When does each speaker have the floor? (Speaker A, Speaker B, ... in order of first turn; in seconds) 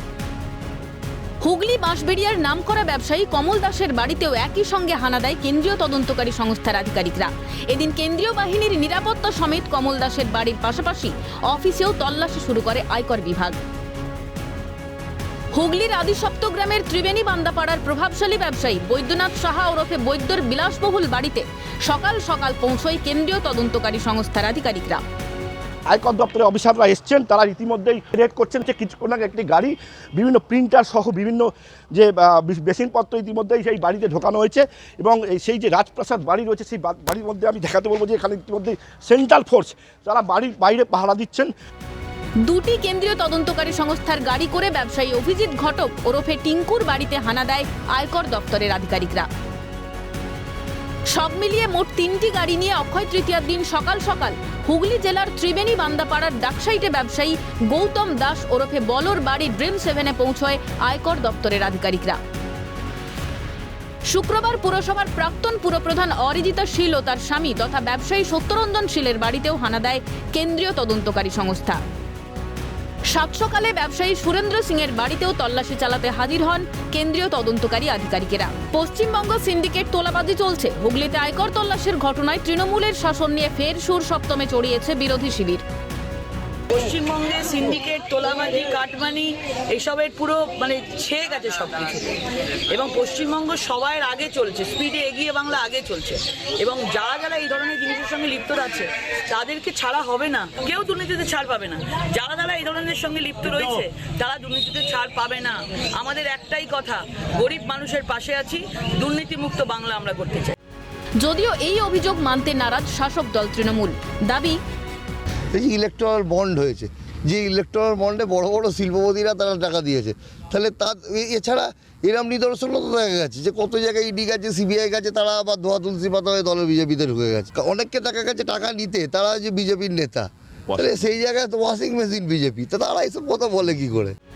Speaker A: 1.4-13.6, 15.5-25.0, 42.4-49.3, 51.1-62.2, 64.1-71.8, 73.1-85.6, 111.2-114.6
Speaker B: 25.9-41.5
Speaker C: 86.7-110.5
Speaker D: 115.5-134.2